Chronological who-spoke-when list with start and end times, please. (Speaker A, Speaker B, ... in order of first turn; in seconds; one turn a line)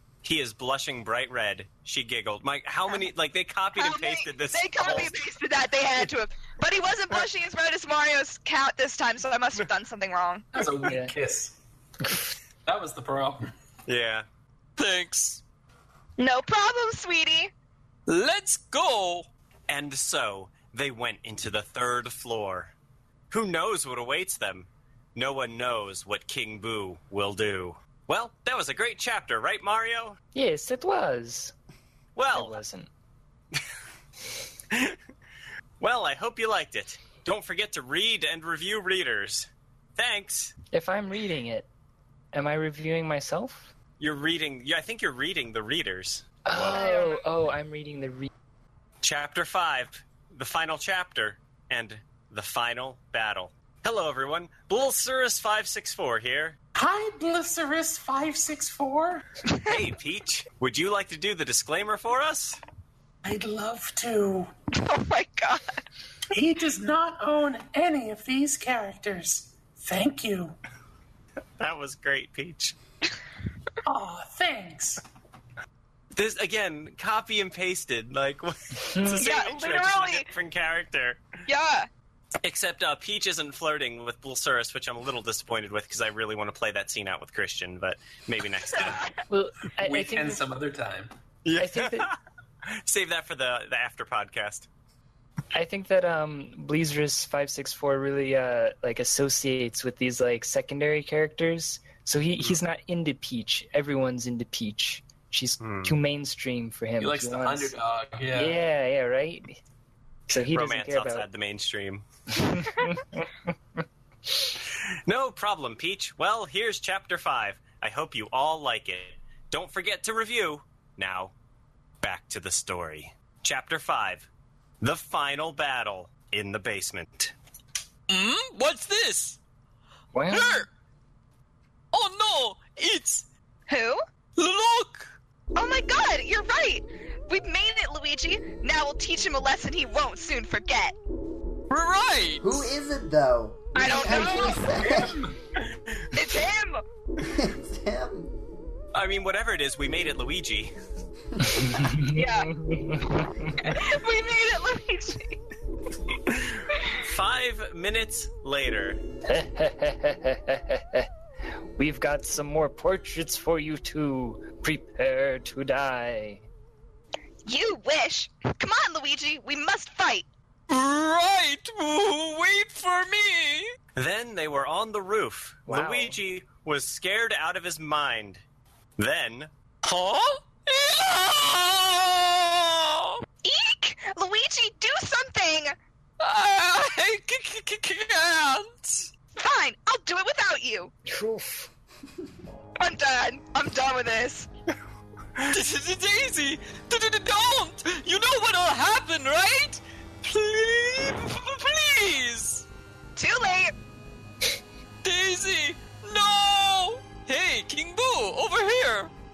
Speaker A: 0.2-5.2
Speaker B: 3.7-10.5
Speaker C: 10.5-11.6
Speaker D: 10.9-11.1
Speaker C: 12.7-13.5
Speaker A: 13.9-14.3
Speaker E: 14.8-15.4
Speaker B: 16.2-17.5
Speaker E: 18.1-19.3
Speaker A: 19.7-22.7
Speaker A: 23.3-30.2
Speaker D: 30.3-31.5
Speaker A: 32.1-32.6
Speaker D: 32.3-32.9
Speaker A: 34.7-35.0
Speaker A: 35.8-40.5
Speaker D: 40.7-41.7
Speaker D: 42.3-43.7
Speaker A: 44.0-46.8
Speaker D: 46.4-48.3
Speaker B: 46.7-47.2
Speaker A: 49.0-56.6
Speaker C: 56.7-59.2
Speaker A: 59.6-62.6
Speaker C: 63.2-64.5
Speaker B: 64.7-65.7
Speaker C: 66.3-70.5
Speaker A: 71.6-72.7
Speaker C: 73.8-75.0
Speaker A: 76.1-81.2
Speaker D: 78.8-79.2
Speaker B: 79.2-80.3
Speaker B: 81.5-81.9
Speaker A: 82.4-89.1
Speaker B: 88.7-89.2
Speaker D: 89.3-90.4
Speaker C: 89.8-91.1
Speaker A: 91.4-92.2
Speaker D: 91.6-92.1
Speaker A: 92.7-94.7
Speaker D: 95.5-107.8
Speaker A: 105.6-106.0
Speaker C: 107.0-108.6
Speaker D: 108.3-109.6
Speaker D: 110.3-111.3
Speaker A: 110.3-112.0
Speaker D: 112.5-113.3
Speaker A: 115.1-121.3
Speaker A: 122.0-124.3
Speaker A: 124.8-127.3
Speaker E: 128.1-129.4
Speaker D: 130.1-130.6
Speaker E: 130.3-130.7
Speaker E: 131.9-133.3
Speaker B: 133.7-134.0
Speaker E: 134.4-135.1
Speaker B: 135.6-140.9
Speaker E: 141.7-142.6
Speaker F: 142.4-145.2
Speaker B: 143.8-144.7
Speaker C: 143.8-145.3
Speaker B: 146.1-146.8
Speaker F: 147.2-148.3
Speaker A: 148.9-150.7
Speaker D: 151.4-153.7
Speaker B: 152.1-152.5
Speaker B: 153.6-155.4
Speaker A: 156.3-159.0
Speaker D: 159.3-161.1
Speaker D: 161.8-166.5
Speaker B: 167.4-170.3
Speaker E: 170.7-173.7
Speaker A: 173.9-178.4
Speaker D: 175.7-176.2
Speaker A: 179.0-179.5
Speaker E: 179.8-183.2
Speaker B: 183.4-185.8
Speaker E: 186.2-189.1
Speaker B: 189.3-190.9
Speaker D: 191.1-191.7
Speaker B: 192.8-194.5
Speaker E: 195.5-202.7
Speaker B: 203.2-203.7
Speaker E: 205.0-209.1